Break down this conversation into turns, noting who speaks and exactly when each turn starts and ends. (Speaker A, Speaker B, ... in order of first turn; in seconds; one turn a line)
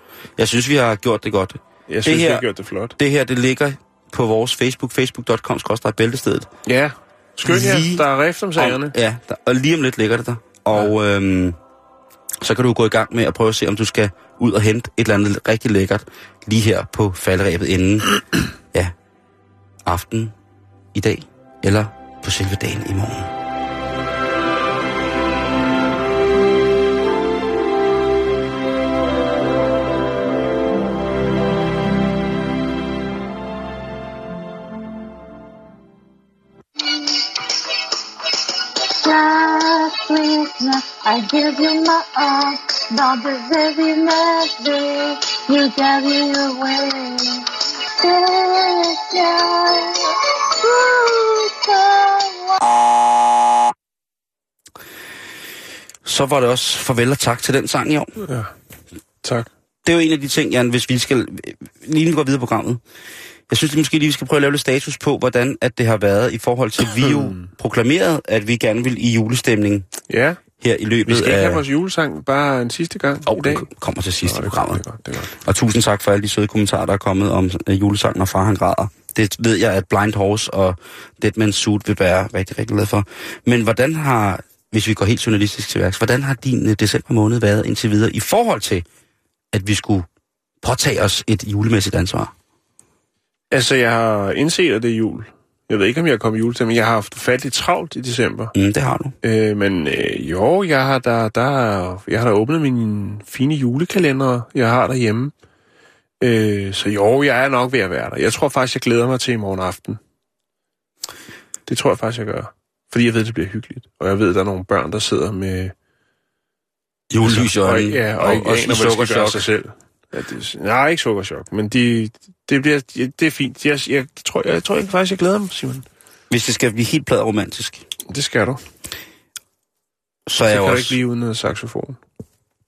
Speaker A: 0.4-6.5
Speaker B: 1.9-3.0
Speaker B: 6.7-8.9
Speaker A: 7.5-11.6
Speaker A: 12.4-18.2
Speaker A: 19.8-20.3
Speaker A: 20.9-23.3
Speaker C: 39.0-52.7
Speaker A: 56.0-58.1
Speaker B: 58.2-58.5
Speaker B: 59.2-59.5
Speaker A: 59.8-62.8
Speaker A: 63.5-69.9
Speaker B: 67.0-67.5
Speaker B: 70.1-70.4
Speaker A: 70.6-71.6
Speaker B: 71.0-73.7
Speaker A: 73.2-74.8
Speaker B: 74.2-75.3
Speaker A: 75.4-88.8
Speaker A: 89.5-90.0
Speaker A: 90.6-92.3
Speaker B: 93.5-98.5
Speaker A: 98.5-99.1
Speaker B: 99.2-105.3
Speaker B: 106.2-110.0
Speaker B: 111.7-115.7
Speaker A: 117.1-119.4
Speaker B: 117.2-125.8
Speaker A: 126.3-127.8
Speaker B: 128.1-128.6
Speaker A: 130.3-131.0
Speaker B: 130.5-132.0